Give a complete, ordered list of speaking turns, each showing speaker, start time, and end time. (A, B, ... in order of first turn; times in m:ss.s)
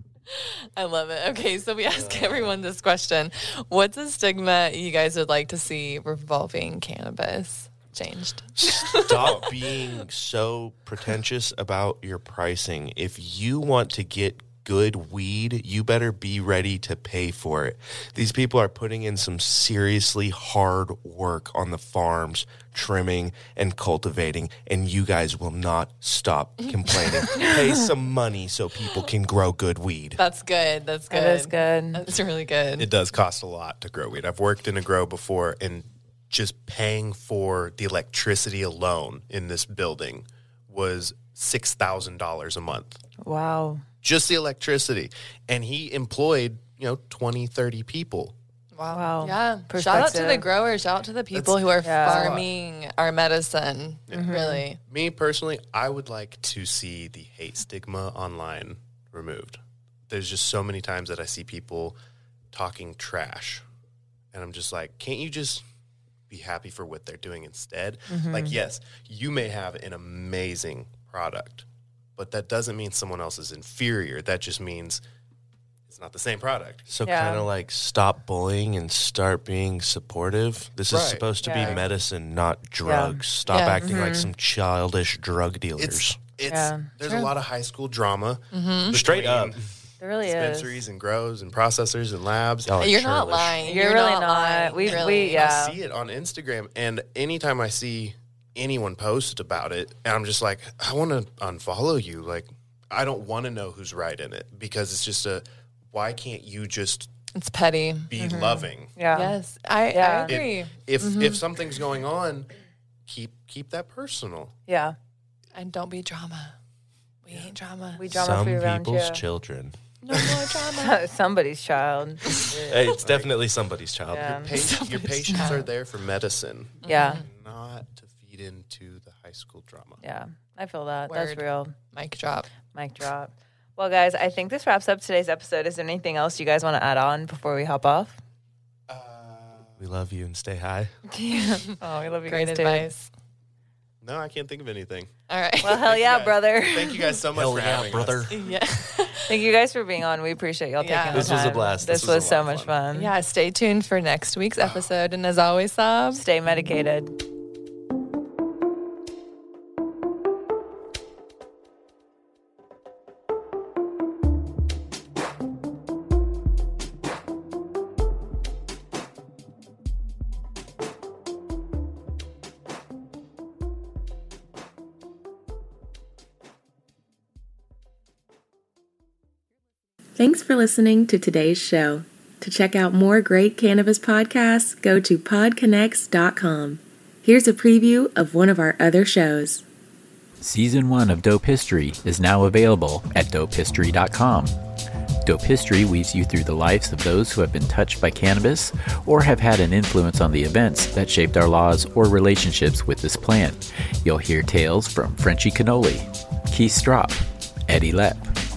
0:00.3-0:09.5 A
0:01.8-0:02.5 B
0:08.5-0:30.2 B
0:27.0-0:27.4 A
0:30.2-0:32.9 A
0:31.1-0:32.0 C
0:32.8-0:43.0 D
0:43.2-0:43.8 C
0:44.0-0:48.3 D
0:48.7-0:54.8 A
0:48.9-0:50.5 C
0:51.8-0:52.4 C
0:54.1-1:02.0 D
0:54.1-0:54.6 C
1:02.5-1:03.6 D
1:04.3-1:05.6 D
1:06.3-1:11.6 D
1:08.1-1:08.6 C
1:12.2-1:15.0 D
1:15.9-1:16.9 D
1:16.9-1:26.2 B
1:17.0-1:17.5 C
1:20.9-1:21.7 D
1:21.4-1:21.8 C
1:22.8-1:23.2 C
1:23.5-1:24.1 A
1:23.8-1:24.3 C
1:25.8-1:29.6 D
1:26.4-1:26.9 C
1:27.0-1:27.3 A
1:28.5-1:29.0 A
1:28.9-1:29.6 B
1:30.0-1:30.8 C
1:30.2-1:32.8 D
1:32.6-1:33.6 B
1:32.8-1:35.5 A
1:33.6-1:35.8 C
1:34.8-1:47.1 D
1:47.3-1:48.1 A
1:48.1-1:48.9 D
1:48.1-1:49.4 C
1:49.1-1:51.4 A
1:49.9-1:50.4 C
1:50.2-1:52.5 D
1:53.1-1:54.5 D
1:54.7-1:55.0 C
1:55.5-1:56.6 A
1:57.2-1:58.0 A
1:58.0-1:59.2 C
1:58.1-2:00.3 B
2:00.0-2:01.0 A
2:00.7-2:02.9 C
2:02.6-2:03.4 D
2:02.6-2:04.5 B
2:04.1-2:04.6 C
2:04.1-2:10.0 D
2:04.6-2:05.7 A
2:06.8-2:07.2 A
2:06.8-2:07.2 C
2:10.0-2:11.7 C
2:11.1-2:12.5 A
2:12.7-2:18.2 C
2:18.9-2:19.8 D
2:19.8-2:20.9 B
2:21.1-2:22.9 C
2:21.3-2:21.8 A
2:22.3-2:23.1 A
2:24.0-2:25.1 D
2:25.3-2:25.8 A
2:25.6-2:27.2 C
2:25.7-2:28.4 D
2:27.3-2:28.4 B
2:28.3-2:29.4 A
2:29.2-2:33.1 C
2:30.8-2:31.3 A
2:31.1-2:32.7 B
2:32.9-2:36.2 A
2:36.1-2:37.1 C
3:00.2-3:09.6 E
3:10.4-3:14.6 F
3:15.2-3:28.3 F